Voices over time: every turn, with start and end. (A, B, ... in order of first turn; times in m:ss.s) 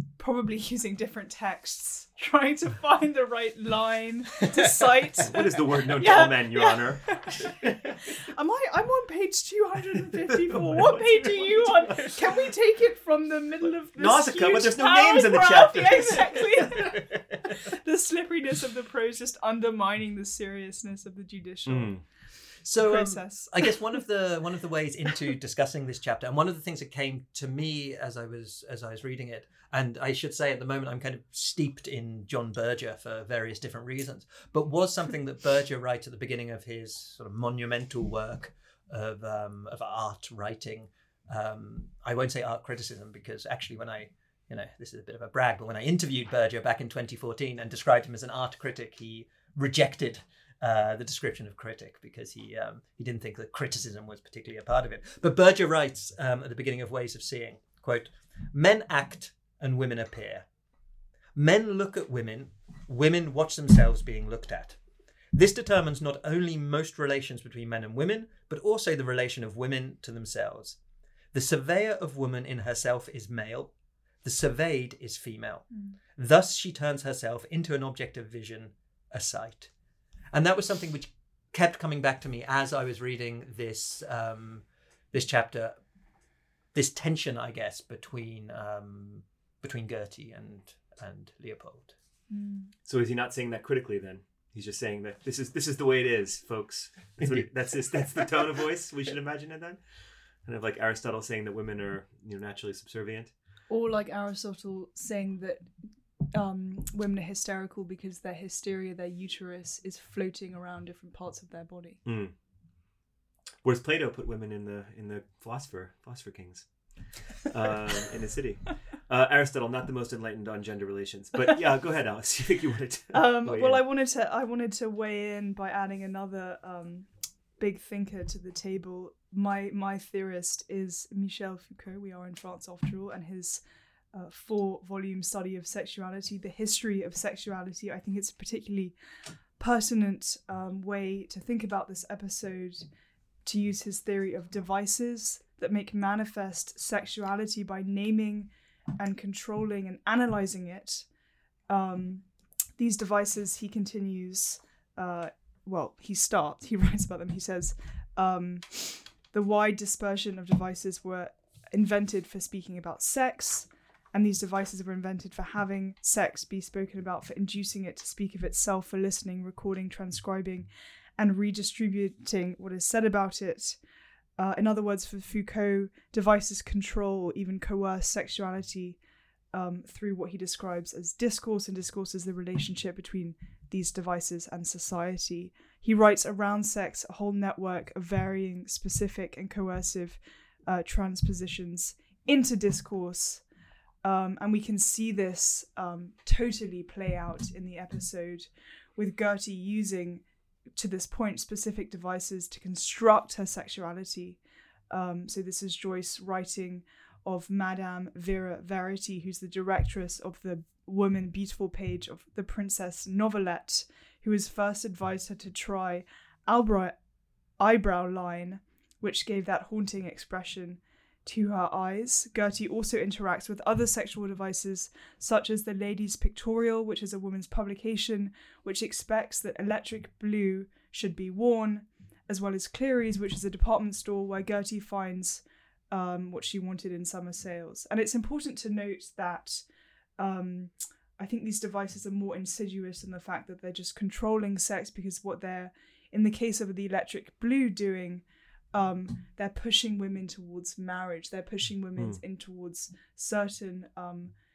0:00.2-0:22.0 A
0:05.2-0:07.9 B
0:10.4-0:12.1 B
0:14.0-0:16.4 B
0:21.7-0:22.0 B
0:22.6-1:00.5 C
0:22.8-0:23.8 A
1:01.4-1:04.8 C
1:05.3-1:10.8 C
1:11.3-1:13.7 C
1:14.2-1:19.7 C
1:20.3-1:25.8 C
1:26.7-1:31.9 C
1:32.3-1:32.7 A
1:32.9-1:39.8 B
1:40.4-1:43.3 B
1:43.7-1:45.6 A
1:46.3-1:52.0 A
1:52.0-1:52.3 B
1:53.6-1:56.7 B
1:57.5-2:03.8 B
2:03.1-2:13.6 A
2:14.1-2:19.0 A
2:19.6-2:22.9 A
2:23.4-2:31.1 A
2:31.7-2:32.2 A
2:32.8-2:53.8 A
2:54.4-2:59.0 A
2:59.5-3:13.4 A
3:14.0-3:20.2 A
3:20.8-3:24.4 A
3:24.9-3:37.0 A
3:37.6-3:59.6 A
4:00.2-4:14.3 A